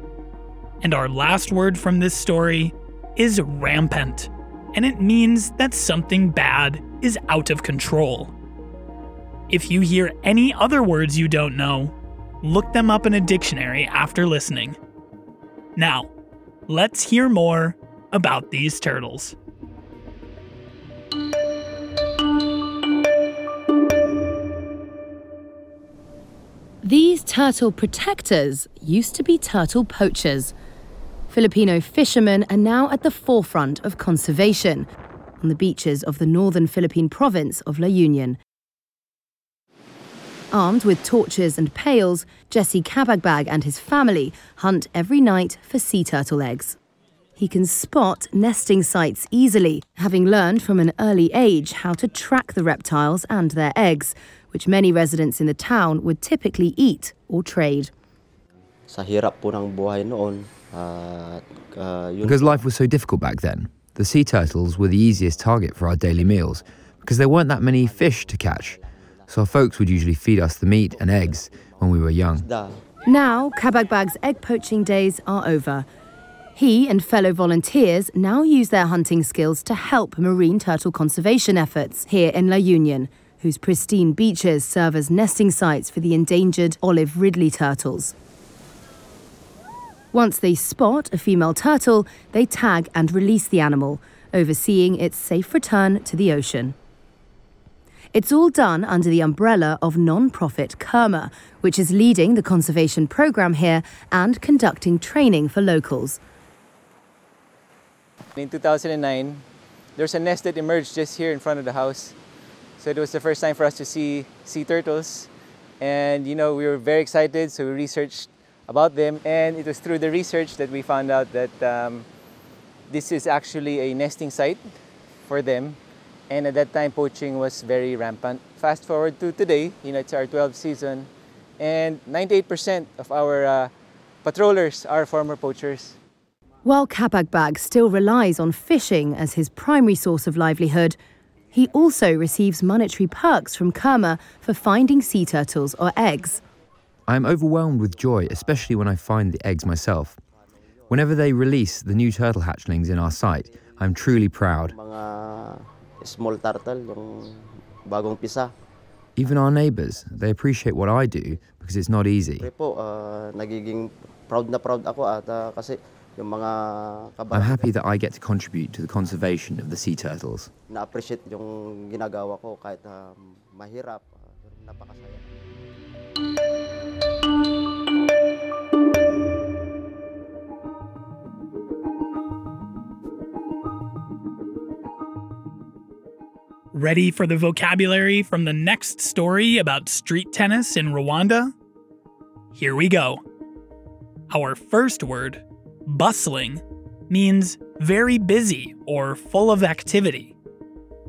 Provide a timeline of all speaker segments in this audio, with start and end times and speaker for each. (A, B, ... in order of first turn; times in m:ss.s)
0:00.8-0:08.3 A
0:09.5-0:14.8 A
0:15.8-0:16.1 A
0:16.7-0:19.3 A
0:26.8-0:30.5 B
0:31.3-0:34.9 B
0:35.4-0:38.4 B
0:40.5-0:46.8 B
0:47.4-0:57.9 B
0:58.9-1:02.6 C
1:02.2-1:12.5 D
1:07.6-1:08.8 C
1:11.0-1:11.4 C
1:12.3-1:12.8 C
1:13.0-1:15.8 B
1:16.5-1:28.1 B
1:30.1-1:36.7 B
1:38.1-1:46.2 B
1:48.4-1:49.4 E
1:50.0-1:52.1 E
1:52.8-1:55.3 E
1:55.8-2:02.0 E
2:02.9-2:04.6 E
2:05.2-2:05.8 E
2:06.3-2:13.7 E
2:14.2-2:16.0 E
2:16.6-2:21.0 B
2:21.5-2:26.4 B
2:27.1-2:30.2 D
2:30.9-2:34.7 D
2:34.6-2:38.5 C
2:39.2-2:42.5 D
2:42.4-2:47.7 C
2:47.3-2:50.5 D
2:50.7-2:55.3 C
3:06.7-3:11.5 A
3:12.5-3:13.2 A
3:14.3-3:20.3 A